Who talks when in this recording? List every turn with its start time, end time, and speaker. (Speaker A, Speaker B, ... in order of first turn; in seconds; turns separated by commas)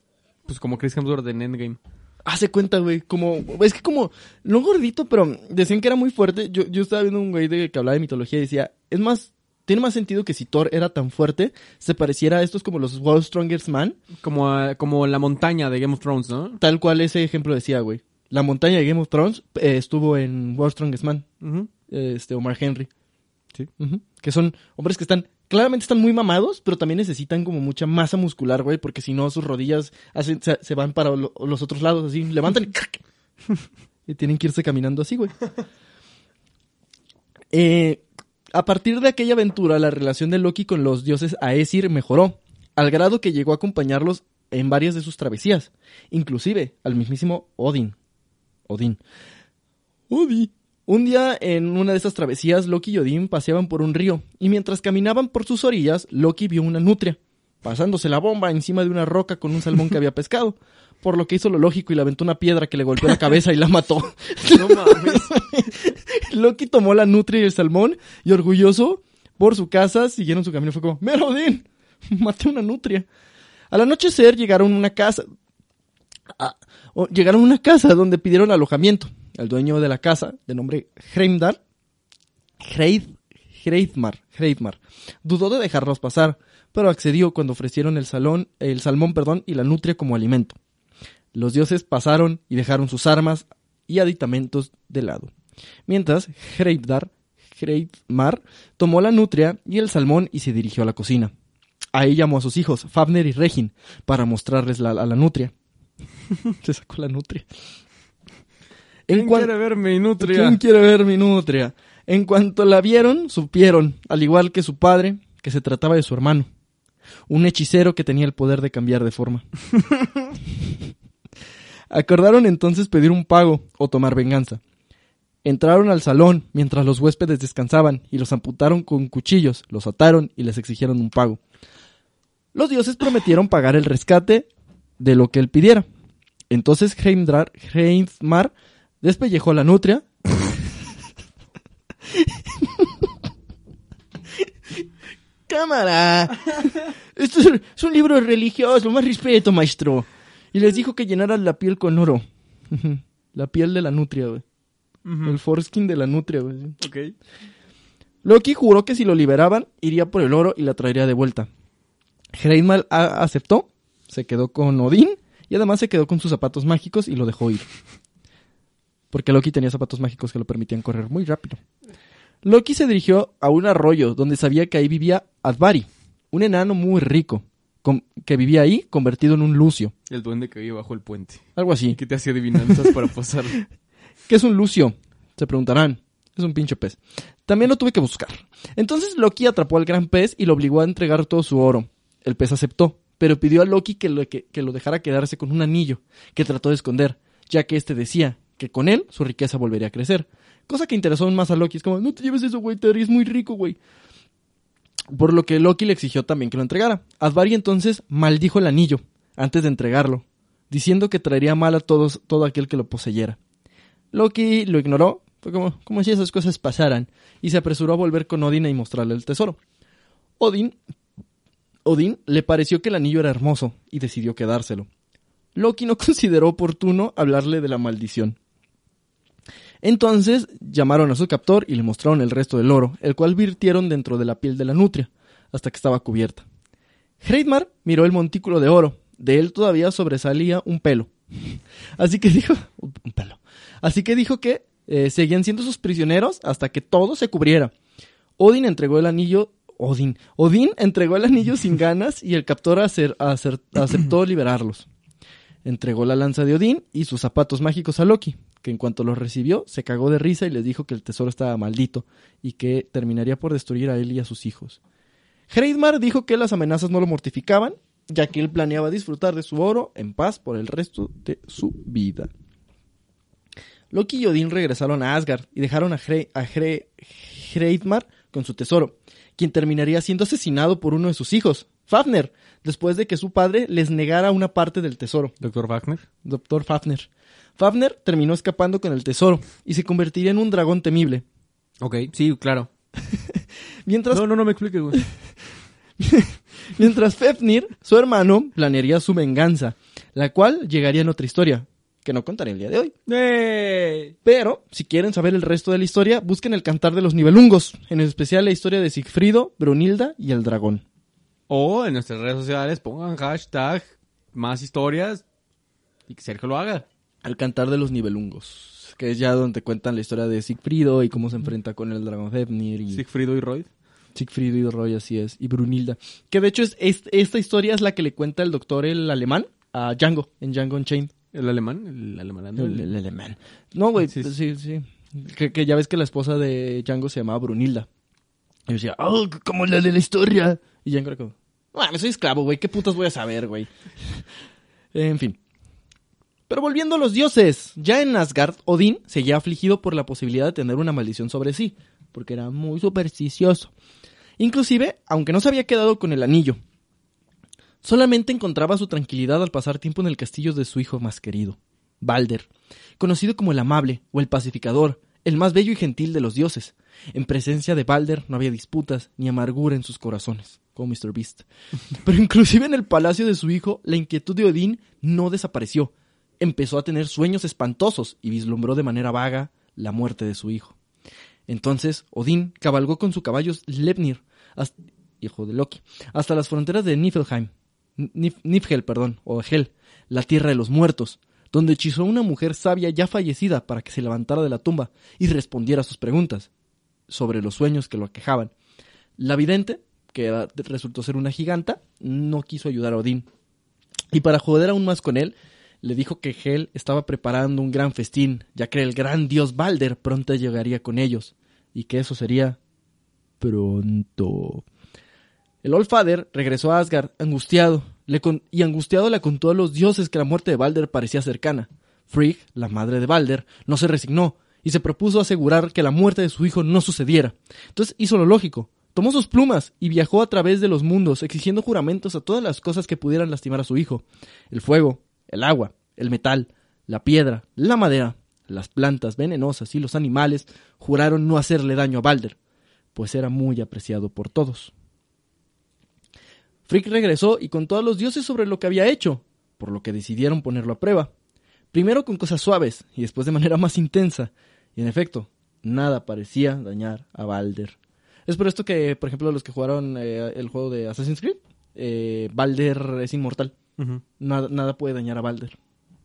Speaker A: 0.5-1.8, Speaker B: 2.2-14.0, Speaker A: 14.2-16.6, Speaker B: 16.6-21.2, Speaker A: 21.4-21.7, Speaker B: 21.9-22.9, Speaker B: 23.8-33.0, Speaker B: 34.1-35.3, Speaker B: 37.5-48.0, Speaker B: 48.7-49.0, Speaker B: 50.1-73.0, Speaker A: 64.5-65.3, Speaker B: 73.7-75.2, Speaker B: 76.3-81.6, Speaker B: 82.6-90.6, Speaker B: 91.3-95.3, Speaker B: 95.9-101.3, Speaker B: 101.9-105.5, Speaker B: 106.6-107.5, Speaker B: 109.1-109.5, Speaker A: 109.1-110.6, Speaker B: 110.2-116.5, Speaker B: 117.3-119.4, Speaker B: 121.9-124.6, Speaker B: 125.4-131.4, Speaker B: 132.5-134.5, Speaker B: 135.0-135.8, Speaker B: 136.5-140.5, Speaker B: 142.1-142.9, Speaker B: 145.5-154.4, Speaker A: 155.1-155.4, Speaker B: 155.2-156.8, Speaker A: 156.8-157.1, Speaker B: 158.2-161.5, Speaker B: 162.3-167.7, Speaker B: 169.1-171.6, Speaker B: 172.4-179.9, Speaker A: 180.1-183.6, Speaker B: 181.6-182.0, Speaker B: 184.3-203.8, Speaker B: 205.1-213.4, Speaker B: 214.1-219.6, Speaker B: 220.4-220.7, Speaker B: 221.8-224.9, Speaker B: 225.5-228.4, Speaker B: 229.8-236.4, Speaker B: 237.2-247.7, Speaker B: 248.4-254.8, Speaker B: 255.6-264.8, Speaker B: 265.5-272.3, Speaker B: 273.9-285.3, Speaker A: 285.4-286.0, Speaker B: 286.2-291.2, Speaker A: 291.8-292.7, Speaker B: 293.1-294.2, Speaker A: 294.1-295.1, Speaker B: 296.0-302.9, Speaker A: 303.1-304.1, Speaker B: 304.2-310.8, Speaker A: 311.5-315.2, Speaker A: 316.1-316.9, Speaker B: 317.2-323.0, Speaker A: 322.9-323.7, Speaker B: 324.1-331.1, Speaker A: 331.3-332.9, Speaker B: 332.6-337.9, Speaker A: 334.0-334.3, Speaker B: 338.7-344.2, Speaker B: 344.9-345.4, Speaker B: 346.5-353.7, Speaker B: 354.4-356.6, Speaker B: 357.8-362.5, Speaker B: 363.0-371.4, Speaker B: 372.0-380.7, Speaker B: 381.5-396.5, Speaker B: 397.1-398.5, Speaker B: 399.2-403.2, Speaker B: 404.1-412.6, Speaker B: 413.4-414.6, Speaker B: 415.6-442.4, Speaker B: 442.9-444.7, Speaker B: 446.6-451.1, Speaker B: 451.7-457.8, Speaker B: 458.3-463.5, Speaker B: 464.2-465.6